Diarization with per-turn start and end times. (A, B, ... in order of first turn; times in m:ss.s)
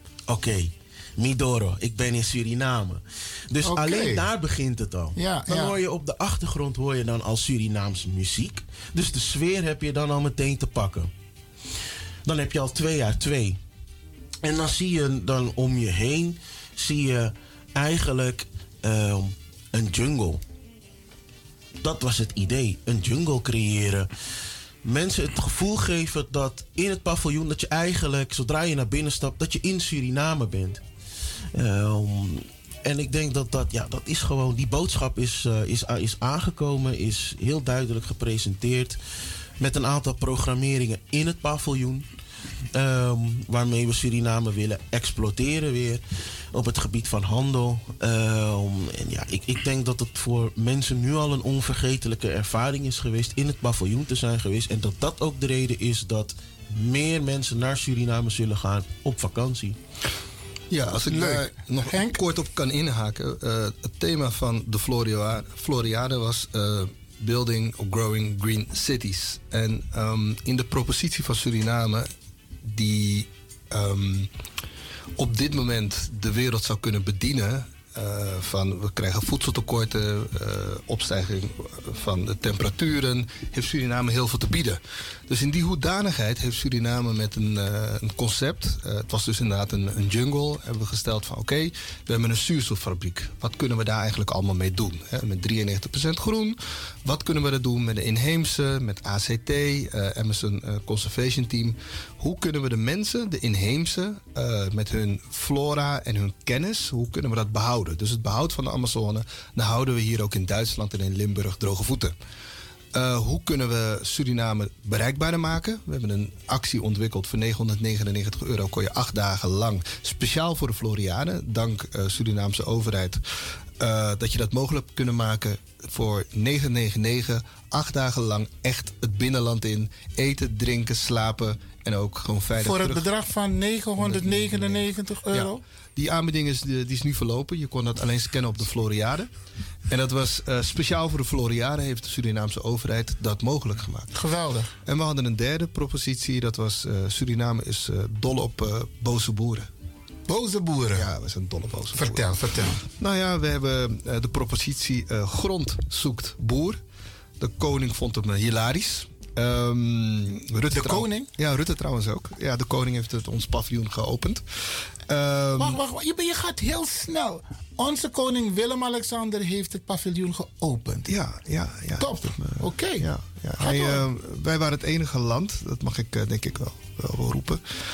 0:00.3-0:11.1 A
0:03.6-0:04.2 B
0:05.1-0:05.7 B
0:12.2-0:13.6 A
0:14.4-0:20.4 A
0:21.8-0:24.1 A
0:24.8-0:30.8 A
0:31.5-0:39.0 A
0:39.6-0:42.0 A
0:42.7-0:46.0 A
0:46.5-0:59.8 A
1:00.7-1:12.1 C
1:01.1-1:02.2 B
1:12.6-1:14.3 C
1:15.2-1:52.1 C
1:52.9-2:03.2 C
2:03.8-2:13.1 C
2:12.6-2:15.6 B
2:14.0-2:19.3 C
2:19.9-2:24.1 C
2:24.1-2:24.8 B
2:24.8-2:29.7 C
2:30.3-2:31.1 B
2:30.9-2:36.8 C
2:31.9-2:32.8 B
2:37.4-2:44.4 C
2:40.7-2:41.3 B
2:45.1-2:45.8 C
2:45.6-2:51.1 B
2:51.1-2:57.6 C
2:52.0-2:54.0 B